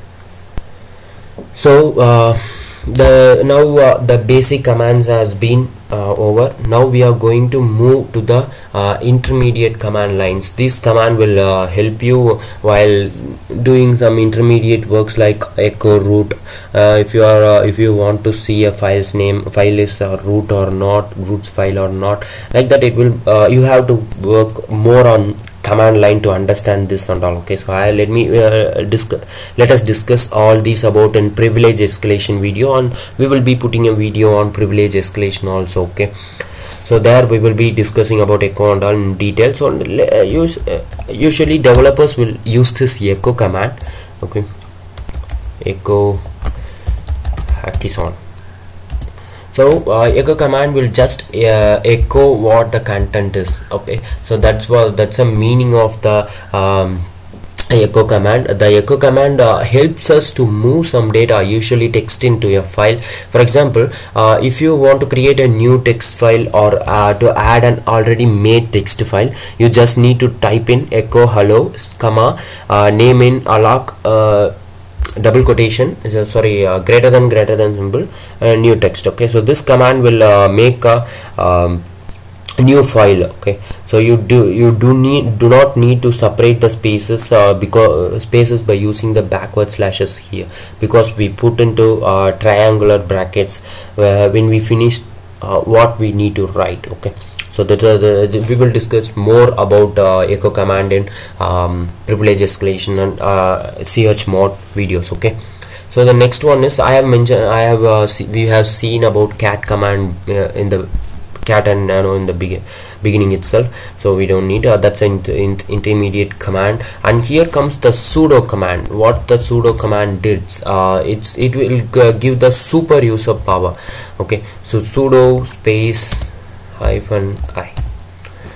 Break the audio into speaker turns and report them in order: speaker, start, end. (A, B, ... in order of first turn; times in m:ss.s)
0:01.6-0:36.1 A
0:36.8-0:44.5 A
0:45.6-0:46.2 A
0:47.6-0:48.2 A
0:49.5-0:57.1 A
0:57.7-1:14.5 A
1:15.2-1:21.8 A
1:22.6-1:45.4 A
1:45.9-1:50.9 A
1:51.4-2:07.8 A